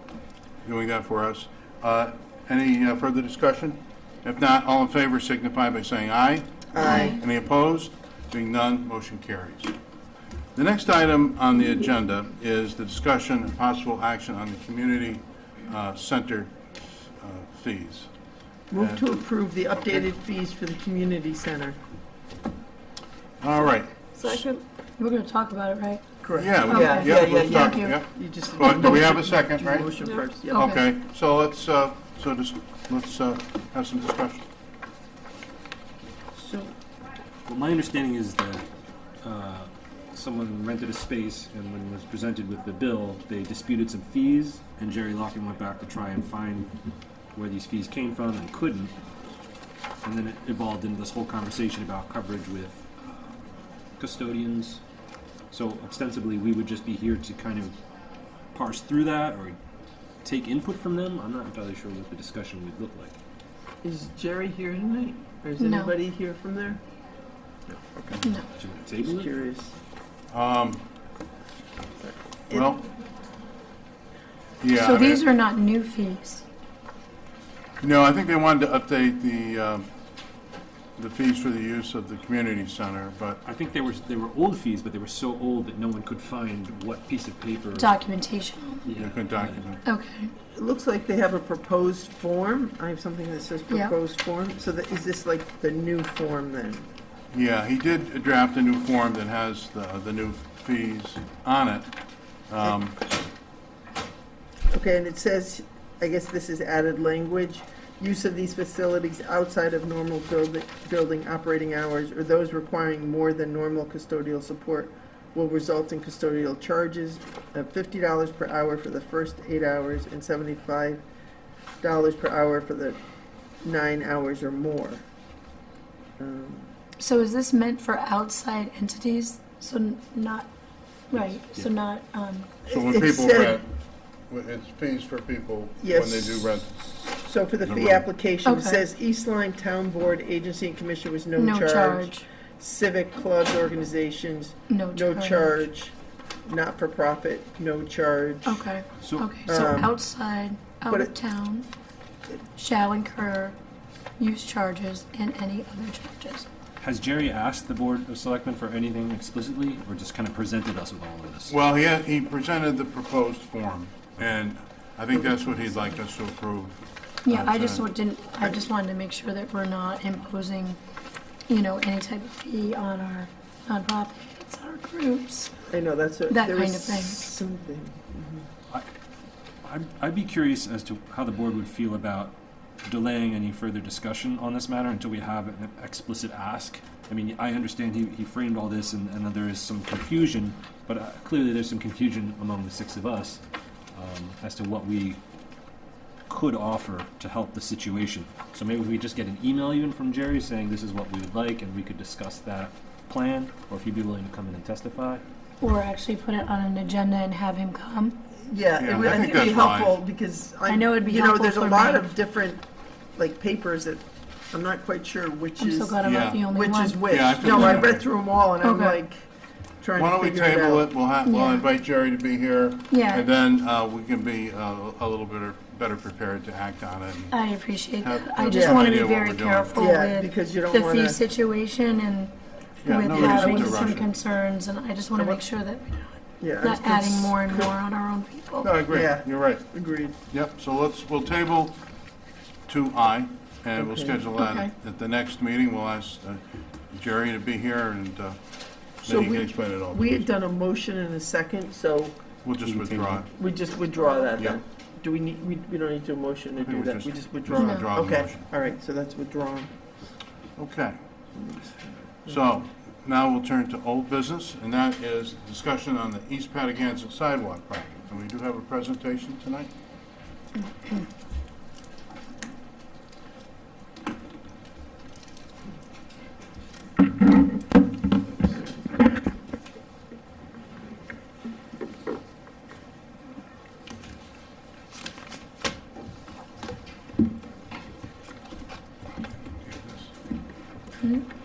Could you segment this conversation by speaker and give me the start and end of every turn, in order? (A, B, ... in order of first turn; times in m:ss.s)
0:00.6-0:09.7 A
0:06.7-0:07.2 B
0:06.8-0:07.2 C
0:10.6-0:16.6 A
0:17.2-0:18.1 A
0:18.7-0:21.8 B
0:18.8-0:19.0 A
0:19.7-0:20.1 A
0:23.4-0:24.3 A
0:24.2-0:26.0 C
0:26.2-0:30.7 B
0:26.4-0:29.9 A
0:26.7-0:28.0 C
0:30.4-0:30.8 C
0:30.5-0:34.5 A
0:36.4-0:36.7 B
0:37.5-0:38.7 D
0:39.2-0:46.7 D
0:47.4-0:48.9 D
0:50.0-0:53.4 D
0:54.0-0:54.8 D
0:55.5-0:57.8 D
0:58.5-0:59.6 D
1:00.2-1:03.2 D
1:03.8-1:06.8 B
1:05.6-1:05.9 C
1:07.7-1:08.2 B
1:08.2-1:08.5 C
1:08.6-1:09.3 D
1:09.0-1:09.7 B
1:10.3-1:10.8 A
1:12.0-1:12.6 B
1:12.5-1:12.8 A
1:14.6-1:15.2 A
1:14.8-1:16.4 C
1:17.8-1:19.9 A
1:21.0-1:23.4 A
1:23.4-1:27.9 D
1:27.8-1:28.8 C
1:28.8-1:29.6 D
1:29.0-1:29.8 A
1:29.8-1:30.3 C
1:30.6-1:36.9 B
1:37.3-1:41.9 A
1:42.5-1:43.0 A
1:44.7-2:01.0 B
2:01.8-2:03.0 B
2:03.6-2:05.0 B
2:06.2-2:06.7 B
2:07.0-2:10.5 C
2:11.1-2:12.5 C
2:11.2-2:11.7 D
2:12.7-2:13.6 B
2:12.7-2:13.7 A
2:14.3-2:16.9 A
2:15.8-2:26.0 B
2:17.6-2:18.0 A
2:18.4-2:18.8 C
2:21.4-2:22.3 C
2:24.7-2:25.6 C
2:26.5-2:28.6 B
2:28.5-2:31.7 C
2:29.0-2:29.5 D
2:29.5-2:30.0 B
2:32.6-2:33.6 C
2:34.2-2:36.5 C
2:36.8-2:41.5 D
2:41.5-2:47.8 A
2:45.2-2:45.7 B
2:47.2-2:50.8 C
2:51.5-2:55.6 C
2:55.7-2:58.5 B
2:56.3-2:57.2 C
2:59.6-3:13.4 D
3:13.9-3:15.2 D
3:16.3-3:25.2 D
3:25.6-3:28.2 C
3:28.4-3:32.6 B
3:28.8-3:30.0 A
3:30.7-3:32.1 C
3:33.2-3:39.3 B
3:35.6-3:37.9 C
3:36.0-3:36.4 A
3:37.0-3:38.0 A
3:38.6-3:39.0 C
3:39.8-3:40.9 B
3:40.0-3:47.4 A
3:41.2-3:41.7 C
3:42.9-3:43.3 C
3:47.3-3:58.7 C
3:48.0-3:49.9 A
3:48.5-3:49.0 B
3:49.8-3:51.2 B
3:52.8-3:54.1 A
3:53.1-3:54.0 B
3:56.4-3:57.7 B
3:58.6-3:59.6 A
3:58.9-4:00.1 B
4:00.3-4:01.8 A
4:02.7-4:08.4 A
4:03.8-4:04.7 B
4:09.0-4:10.3 A
4:09.0-4:12.2 B
4:12.4-4:13.3 A
4:12.6-4:13.2 D
4:13.3-4:19.7 B
4:16.6-4:18.5 A
4:17.6-4:17.9 C
4:20.6-4:21.0 A
4:21.4-4:22.0 B
4:22.3-4:29.7 A
4:49.6-4:50.1 A
4:51.0-4:51.3 C